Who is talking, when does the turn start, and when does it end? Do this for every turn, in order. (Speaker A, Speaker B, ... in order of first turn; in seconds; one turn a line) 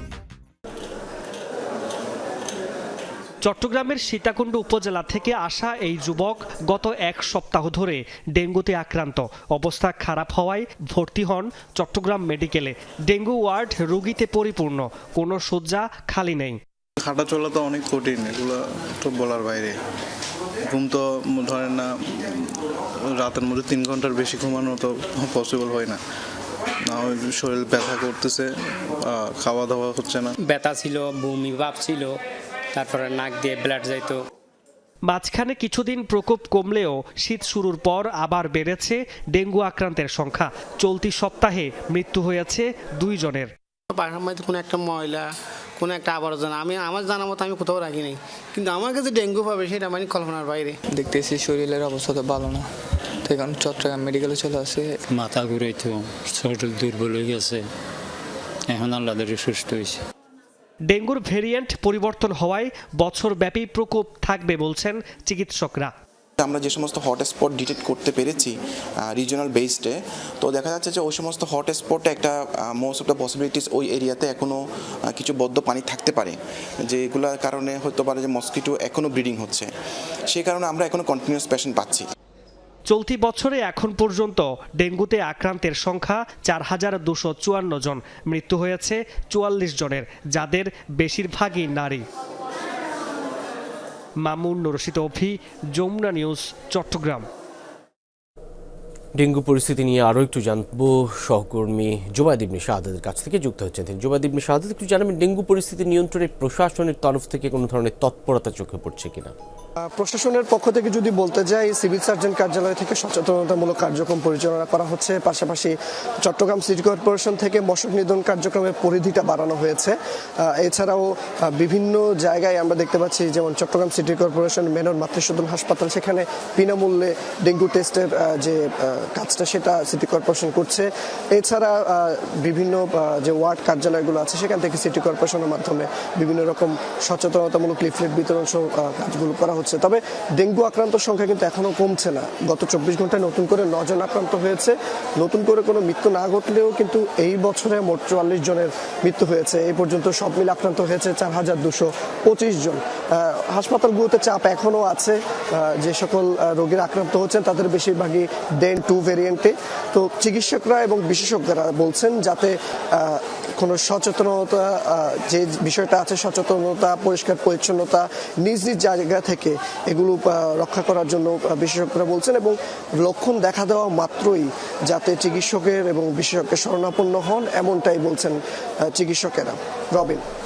Speaker A: 3.4-16.6
Speaker B: 17.0-19.7
Speaker B: 20.7-22.6
Speaker B: 23.2-26.0
Speaker B: 26.9-30.3
Speaker C: 30.4-32.1
Speaker C: 32.7-34.1
Speaker A: 35.1-43.5
Speaker D: 43.9-50.7
Speaker E: 50.9-52.7
Speaker E: 53.2-55.0
Speaker F: 55.1-57.6
Speaker F: 58.7-60.0
Speaker A: 60.9-65.9
Speaker G: 66.4-76.4
Speaker G: 76.9-79.7
Speaker G: 80.3-82.1
Speaker A: 82.9-92.0
Speaker A: 94.2-97.2
Speaker H: 99.2-109.3
Speaker I: 109.9-180.2